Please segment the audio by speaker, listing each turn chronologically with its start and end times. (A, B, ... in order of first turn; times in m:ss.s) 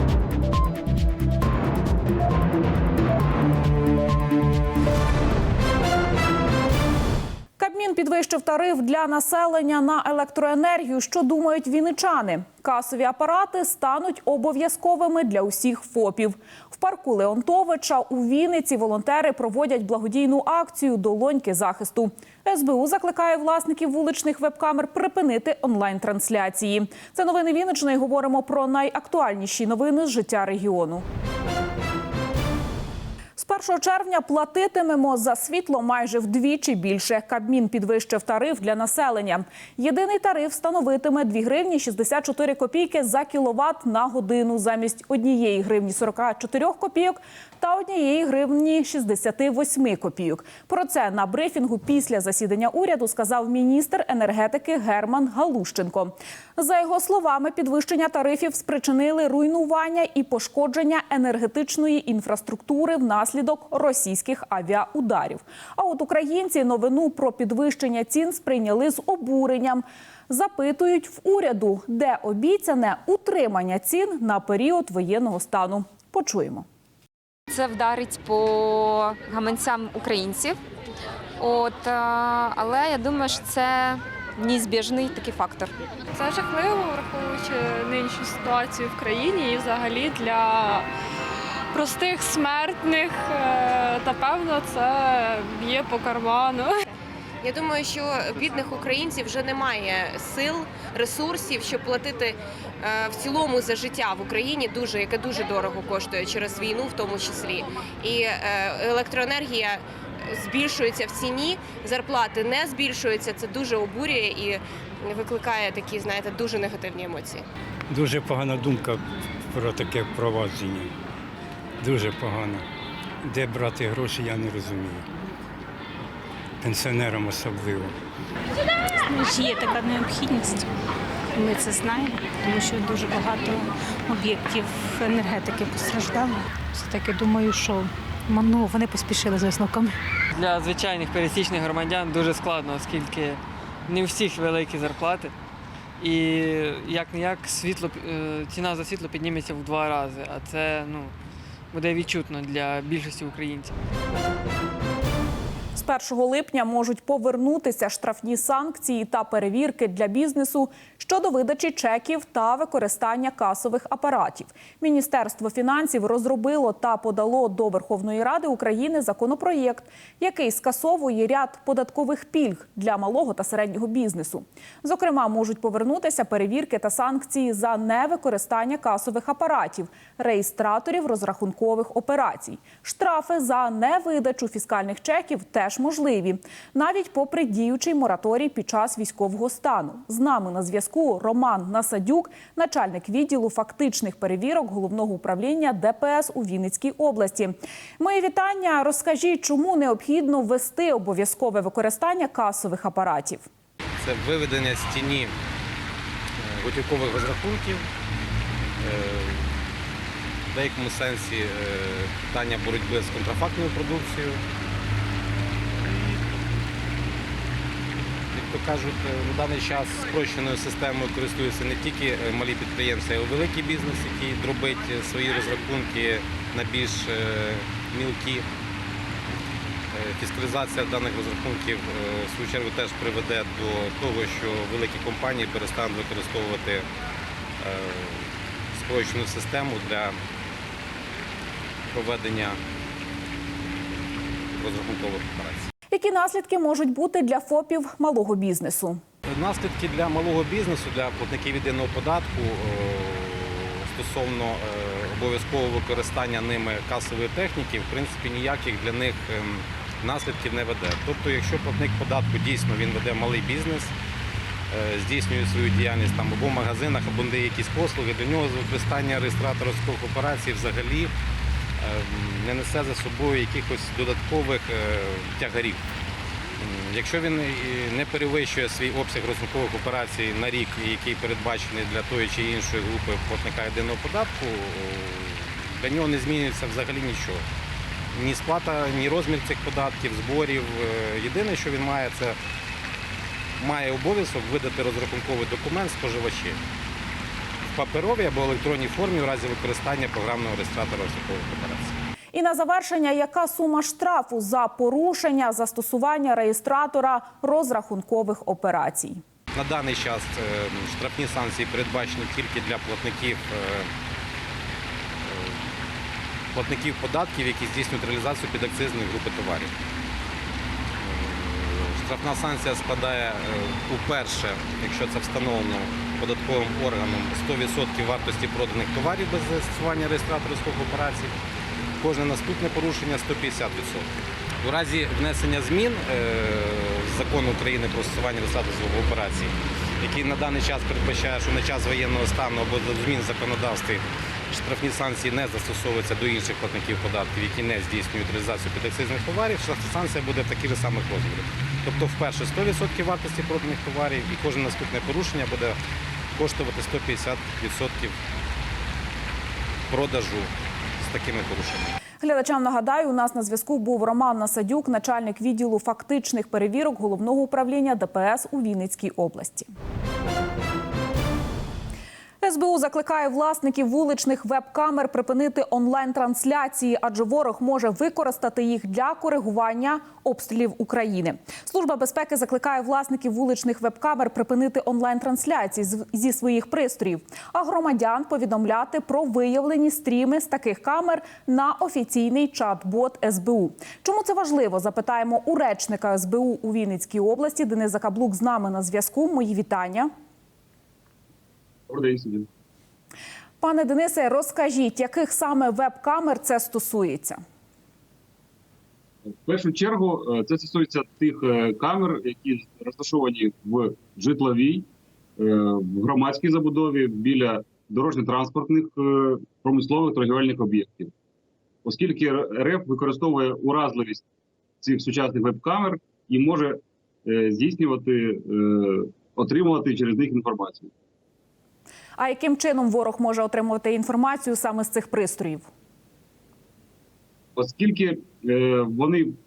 0:07.6-0:31.0 A
0:33.4-1:16.6 A
1:17.5-1:20.6 B
1:21.4-1:25.7 B
1:26.1-1:30.9 C
1:31.7-1:36.8 C
1:37.4-1:57.4 D
1:57.9-1:59.0 E
1:59.5-2:00.9 E
2:01.8-2:02.6 E
2:03.2-2:05.0 E
2:06.6-2:07.9 E
2:09.0-2:10.6 F
2:11.4-2:19.9 F
2:20.3-2:25.3 G
2:26.0-2:31.1 G
2:31.7-2:33.7 G
2:35.7-3:23.5 A
3:24.0-3:25.3 H
3:26.4-3:27.8 H
3:28.8-3:29.5 H
3:30.5-3:34.4 H
3:38.3-3:48.4 H
3:49.9-3:56.8 H
3:57.6-4:00.1 H
4:01.9-4:02.6 H
4:04.6-4:05.7 H
4:05.9-4:09.0 A
4:09.2-4:23.9 H
4:24.7-4:31.1 H
4:31.8-4:35.8 H
4:36.6-4:47.4 H
4:48.1-4:52.4 H
4:53.6-4:56.6 H
4:57.7-5:02.0 H
5:02.3-5:09.2 A
5:09.5-5:13.9 H
5:15.2-5:15.6 H
5:16.5-5:19.7 H
5:21.0-5:31.3 H
5:32.0-5:34.1 H
5:34.6-5:55.8 H
5:56.3-5:58.2 H
5:59.9-6:01.9 H
6:02.2-6:09.7 A
6:12.4-6:40.1 A
6:41.9-6:42.5 I
6:43.6-6:47.4 A
6:49.4-6:54.9 I
6:55.4-7:01.1 I
7:01.8-7:04.2 I
7:04.8-7:10.9 I
7:12.2-7:15.7 A
7:17.6-7:19.3 I